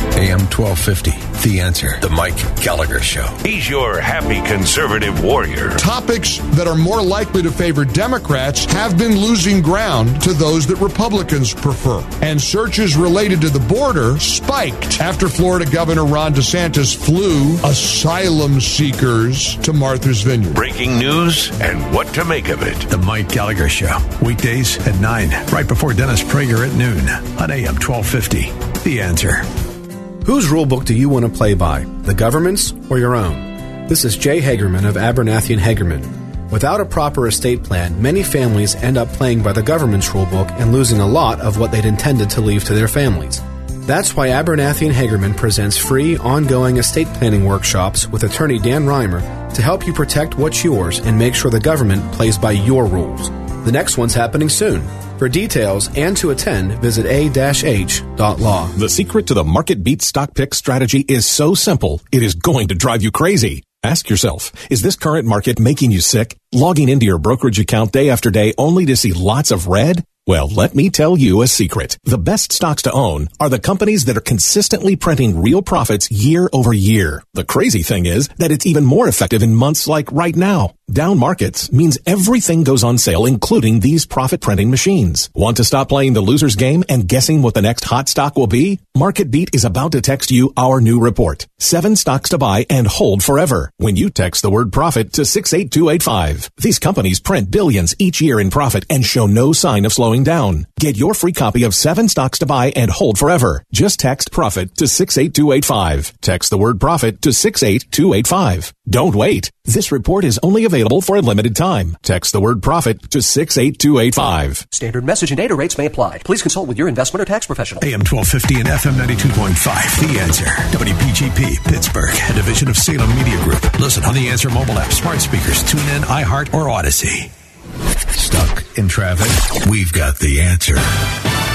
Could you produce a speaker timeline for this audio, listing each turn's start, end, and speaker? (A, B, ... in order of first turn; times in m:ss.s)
0:00.2-0:03.3 A
0:03.4-0:05.8 B
0:05.8-0:20.6 C
0:20.5-0:22.9 B
0:22.9-0:29.5 A
0:30.2-0:58.7 D
0:58.7-1:54.6 E
1:54.7-1:57.8 F
1:57.8-2:07.3 A
2:08.1-2:10.9 A